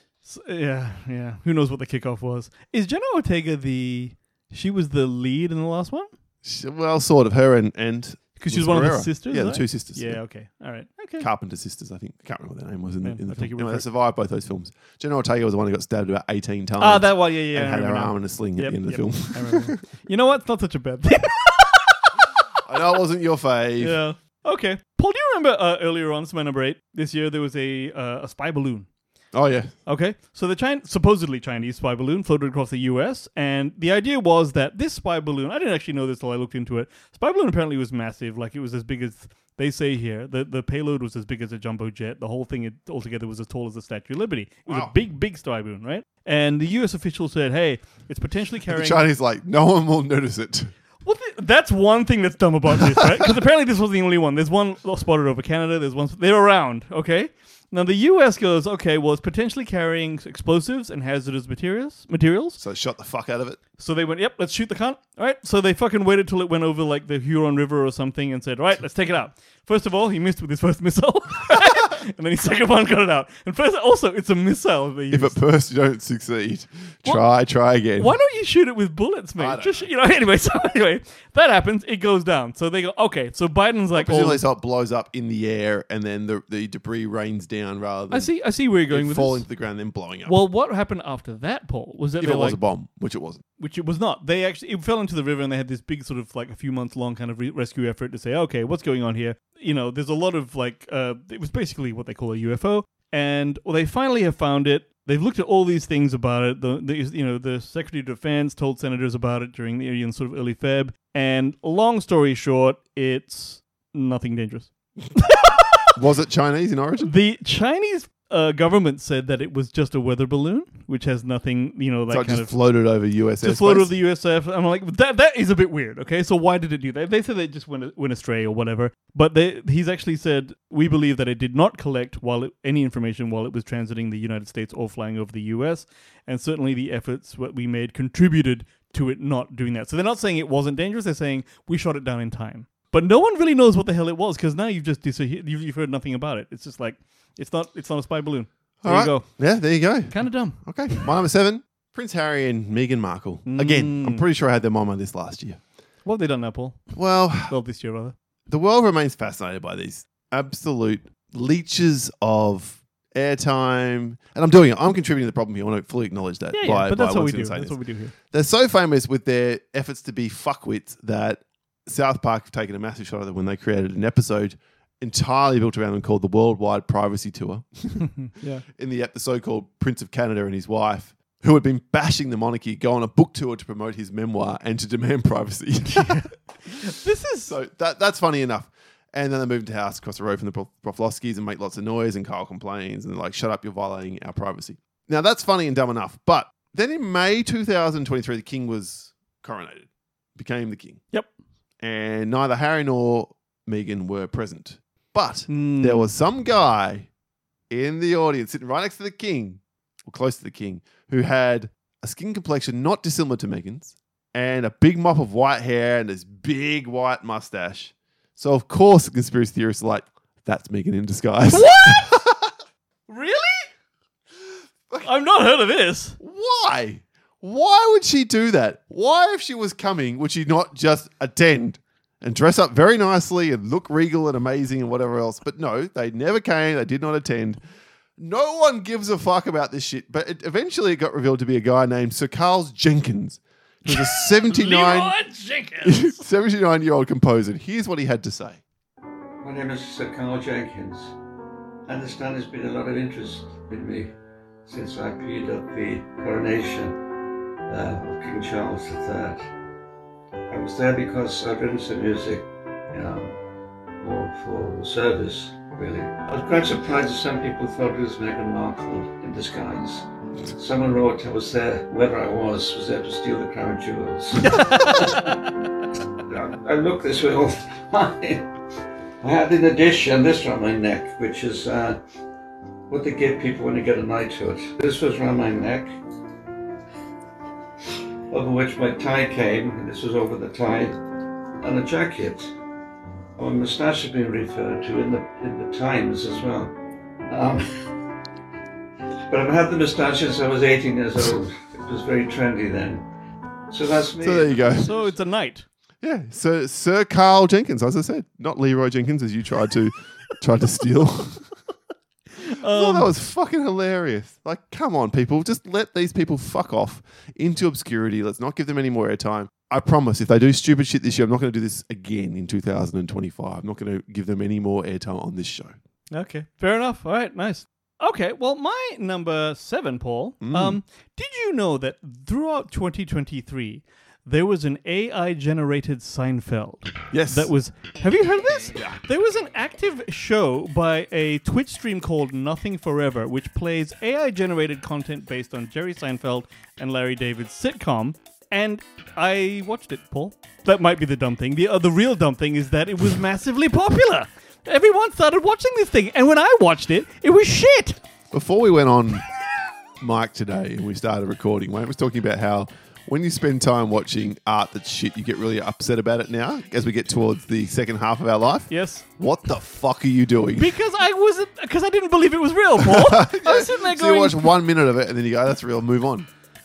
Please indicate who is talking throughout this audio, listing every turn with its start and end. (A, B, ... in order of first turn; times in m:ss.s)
0:00.2-0:06.1 A
0:06.4-0:10.2 B
0:08.4-0:11.3 A
0:11.2-0:19.8 B
0:13.0-0:13.8 A
0:16.8-0:22.2 A
0:22.6-0:24.0 B
0:23.8-0:28.9 A
0:29.3-0:29.7 B
0:29.9-0:49.1 A
0:44.7-0:44.9 B
0:48.7-0:50.7 B
0:51.0-1:02.6 A
0:52.8-0:53.3 B
1:02.6-1:03.6 B
1:03.8-1:15.4 A
1:15.1-1:18.2 B
1:18.0-1:24.4 A
1:19.4-1:19.9 B
1:24.0-1:28.3 B
1:28.1-1:29.4 A
1:28.9-1:30.4 B
1:30.3-1:32.6 A
1:32.2-1:33.4 B
1:33.6-1:55.9 A
1:56.0-1:57.1 B
1:57.0-2:02.5 A
2:02.1-2:03.9 B
2:03.4-2:29.3 A
2:28.8-2:35.6 B
2:30.1-2:31.0 A
2:33.5-2:34.2 A
2:36.0-2:36.8 A
2:36.9-2:37.5 B
2:37.5-2:38.2 A
2:38.5-2:47.8 B
2:46.5-2:48.1 A
2:48.3-2:58.1 B
2:58.0-2:58.6 A
2:58.7-3:06.3 B
3:05.9-3:07.6 A
3:07.4-3:21.0 B
3:21.8-3:27.1 B
3:25.5-3:26.1 A
3:27.7-3:42.5 B
3:41.5-3:42.2 A
3:43.1-3:43.7 A
3:45.0-3:46.2 A
3:46.2-3:57.6 B
3:58.2-4:05.2 B
4:03.9-4:06.2 A
4:05.8-4:08.6 B
4:09.4-4:11.1 C
4:11.9-4:14.1 C
4:14.7-4:17.0 C
4:17.7-4:19.4 C
4:20.5-4:23.4 C
4:24.0-4:35.4 C
4:34.4-4:35.4 A
4:36.3-4:38.5 C
4:39.2-4:42.0 C
4:42.9-4:45.9 C
4:48.3-4:51.0 C
4:51.6-4:52.5 C
4:53.4-4:56.7 C
4:57.3-4:57.6 C
4:59.3-5:03.0 C
5:03.7-5:05.1 C
5:04.2-5:04.9 B
5:04.8-5:05.7 A
5:06.0-5:11.4 B
5:12.4-5:13.1 A
5:12.6-5:25.7 B
5:26.1-5:58.0 A
5:30.4-5:30.8 B
5:37.1-5:37.5 B
5:38.7-5:39.0 B
5:58.3-5:59.2 B
6:00.0-6:10.7 B
6:08.7-6:09.0 A
6:10.6-6:14.5 A
6:12.8-6:16.3 B